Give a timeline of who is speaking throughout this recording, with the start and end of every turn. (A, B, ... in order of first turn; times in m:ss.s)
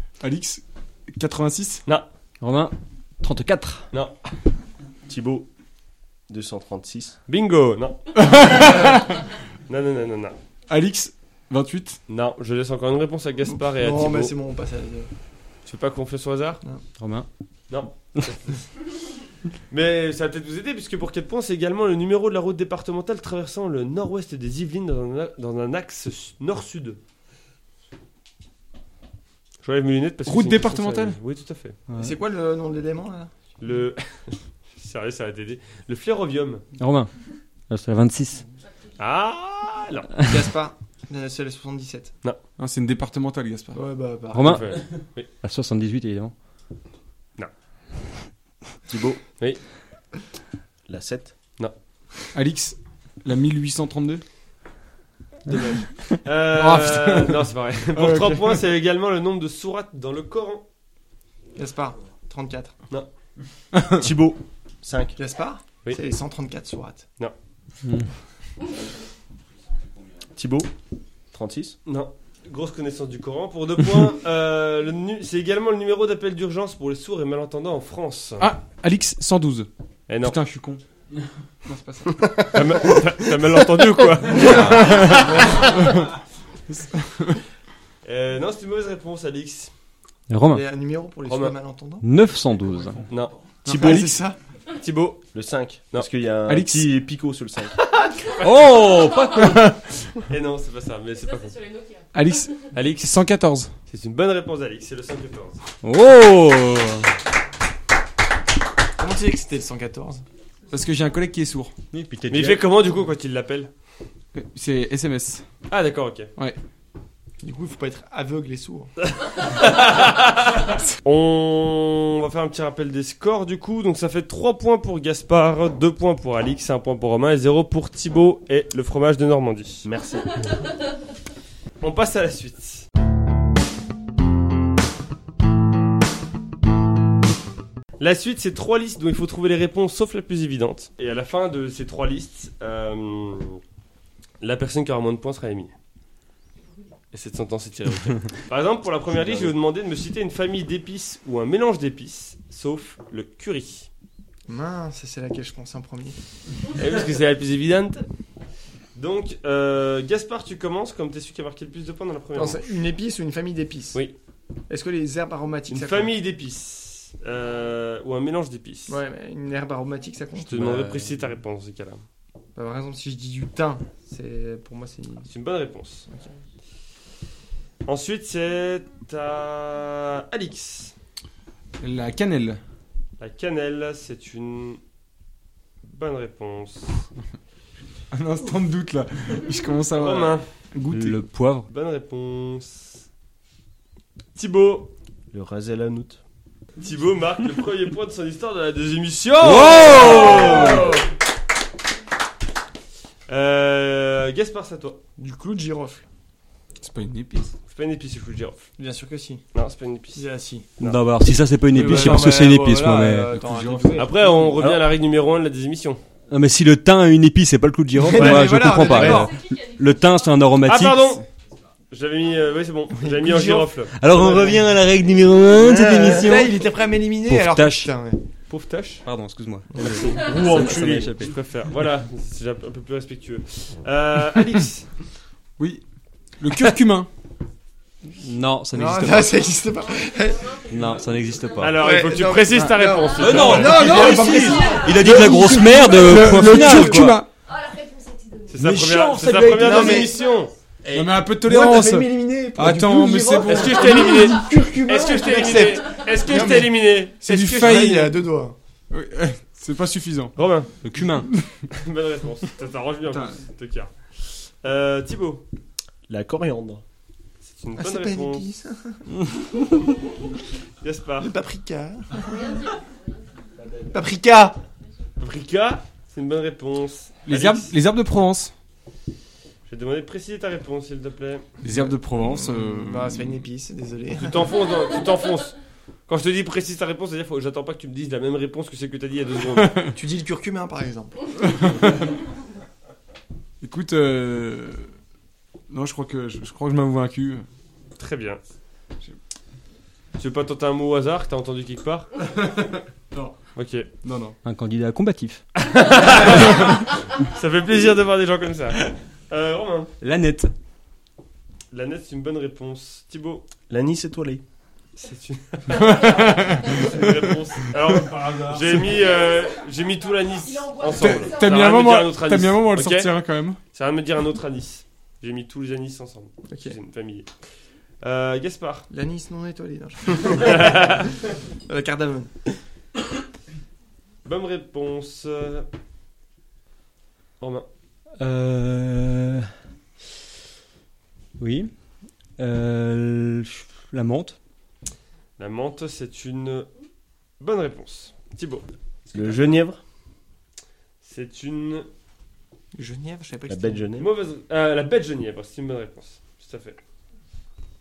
0:00.2-0:01.8 A
0:02.4-0:03.9 B
0:05.1-0:05.5 C
0:06.3-0:07.2 C
0:07.3-0:08.9 D
0:08.2-0:09.2 A
0:09.7-0:10.4 D
0:10.7-0:12.0 A
0:12.1-0:14.3 D
0:13.6-0:15.1 E
0:15.6-0:16.6 D
0:17.0-0:17.3 B
0:17.7-0:18.7 D
0:19.7-0:27.0 D
0:29.6-0:31.8 D
0:30.2-0:31.2 A
0:31.9-0:32.1 B
0:32.0-0:33.3 E
0:33.6-0:36.6 D
0:36.8-0:37.1 B
0:37.7-0:38.4 B
0:39.0-0:40.1 D
0:40.2-0:42.1 E
0:42.6-0:43.8 A
0:43.7-0:44.6 E
0:44.3-0:46.3 B
0:44.4-0:45.3 D
0:48.9-0:49.2 C
0:50.9-0:51.3 C
0:52.3-0:54.2 A
0:55.5-1:00.6 D
0:56.5-0:58.6 A
1:01.6-1:02.7 E
1:03.9-1:05.2 C
1:05.2-1:07.0 E
1:07.8-1:08.1 B
1:10.3-1:10.7 C
1:11.3-1:11.8 C
1:11.8-1:18.5 D
1:18.4-1:19.7 A
1:20.1-1:20.4 D
1:20.2-1:20.8 A
1:21.7-1:22.0 A
1:22.0-1:22.8 E
1:22.5-1:25.9 D
1:24.4-1:26.0 A
1:26.7-1:27.4 A
1:28.0-1:29.7 D
1:30.3-1:30.6 B
1:30.5-1:32.0 E
1:31.3-1:31.5 D
1:32.0-1:33.1 B
1:33.1-1:33.4 D
1:33.6-1:34.2 A
1:33.6-1:34.4 E
1:34.8-1:35.2 D
1:35.3-1:37.7 C
1:36.5-1:36.9 A
1:38.2-1:38.5 D
1:38.4-1:39.6 B
1:38.8-1:39.4 F
1:40.3-1:41.5 D
1:41.1-1:42.5 F
1:42.1-1:43.7 A
1:42.7-1:43.1 D
1:43.9-1:45.6 D
1:45.8-1:47.1 B
1:49.0-1:50.2 E
1:50.7-1:51.7 A
1:51.9-1:52.6 B
1:52.3-1:53.7 D
1:54.3-1:55.4 A
1:55.7-1:56.3 D
1:57.4-1:58.9 E
1:59.2-2:09.9 D
2:09.8-2:10.3 C
2:11.8-2:12.8 D
2:18.0-2:23.6 D
2:24.4-2:25.7 D
2:27.1-2:33.9 D
2:29.1-2:29.5 C
2:34.5-2:36.2 E
2:36.8-2:38.1 D
2:38.9-2:42.6 D
2:42.3-2:44.0 E
2:44.7-2:46.1 E
2:45.7-2:49.0 D
2:48.9-2:50.8 E
2:50.4-2:52.0 D
2:50.5-2:51.1 B
2:52.6-2:55.3 E
2:55.3-2:56.1 D
2:57.8-3:00.9 D
3:01.8-3:02.6 A
3:03.2-3:04.8 D
3:05.8-3:07.0 D
3:08.1-3:11.2 A
3:09.9-3:10.4 D
3:10.9-3:11.7 B
3:11.7-3:13.0 D
3:14.3-3:14.9 D
3:15.3-3:16.2 C
3:16.8-3:21.0 D
3:19.4-3:20.9 B
3:20.0-3:21.0 E
3:23.3-3:25.0 D
3:25.2-3:26.0 E
3:26.8-3:27.5 A
3:27.7-3:28.7 D
3:28.8-3:29.4 E
3:29.5-3:30.2 D
3:30.1-3:30.7 E
3:30.8-3:33.4 B
3:31.7-3:34.6 E
3:31.7-3:32.4 A
3:33.4-3:34.1 A
3:34.0-3:36.0 D
3:36.3-3:41.2 B
3:38.0-3:39.3 E
3:38.1-3:39.2 D
3:38.9-3:40.4 F
3:40.6-3:41.2 D
3:41.9-3:43.9 D
3:43.0-3:44.6 E
3:43.9-3:46.6 B
3:45.6-3:48.2 E
3:47.3-3:47.9 B
3:48.5-3:49.0 D
3:49.0-3:51.3 B
3:49.8-3:51.0 E
3:49.8-3:54.9 D
3:55.6-3:55.8 A
3:56.4-3:57.1 A
3:58.1-3:59.4 B
3:58.7-4:00.5 E
3:59.8-4:01.8 F
4:00.7-4:01.8 B
4:01.6-4:03.8 D
4:01.8-4:07.0 E
4:03.1-4:05.2 F
4:03.2-4:07.2 B
4:03.6-4:07.3 A
4:07.4-4:08.7 F
4:08.5-4:10.5 D
4:08.6-4:10.1 B
4:09.6-4:10.2 E
4:10.0-4:10.4 F
4:10.8-4:16.7 E
4:10.9-4:14.2 A
4:13.4-4:17.8 D
4:16.3-4:18.2 A
4:17.5-4:18.6 E
4:18.9-4:20.3 A
4:20.4-4:20.7 D
4:20.8-4:21.3 B
4:21.7-4:25.4 D
4:23.1-4:23.4 A
4:26.1-4:26.8 C
4:27.4-4:28.5 D
4:27.8-4:29.0 E
4:30.8-4:31.3 D
4:31.2-4:32.5 E
4:32.2-4:33.3 F
4:33.9-4:34.6 E
4:35.2-4:37.7 D
4:37.2-4:38.5 A
4:39.7-4:41.4 D
4:41.6-4:43.4 A
4:42.4-4:44.5 E
4:44.1-4:45.5 D
4:46.1-4:49.8 D
4:49.6-4:50.0 A
4:49.9-4:51.3 E
4:51.4-4:51.9 A
4:53.6-4:54.9 A
4:55.7-4:57.4 A
4:58.0-4:58.4 D
5:00.2-5:02.1 D
5:02.4-5:03.3 A
5:03.6-5:03.9 D
5:04.0-5:04.4 A
5:04.4-5:05.4 B
5:05.6-5:09.9 D
5:10.0-5:10.5 B
5:11.7-5:13.4 D
5:13.7-5:14.4 C
5:15.0-5:27.3 D
5:15.7-5:17.0 A
5:19.1-5:19.5 F
5:20.4-5:21.6 F
5:20.9-5:23.6 A
5:26.5-5:26.8 E
5:28.0-5:28.9 D
5:28.9-5:32.3 E
5:30.2-5:31.1 D
5:34.2-5:35.7 D
5:37.4-5:37.7 D
5:38.2-5:39.5 B
5:41.4-5:41.7 B
5:42.4-5:44.4 B
5:45.4-5:46.7 D
5:47.4-5:48.6 D
5:49.1-5:49.8 C
5:51.0-5:51.9 D
5:52.7-5:53.9 E
5:53.5-5:54.1 C
5:54.0-5:56.8 D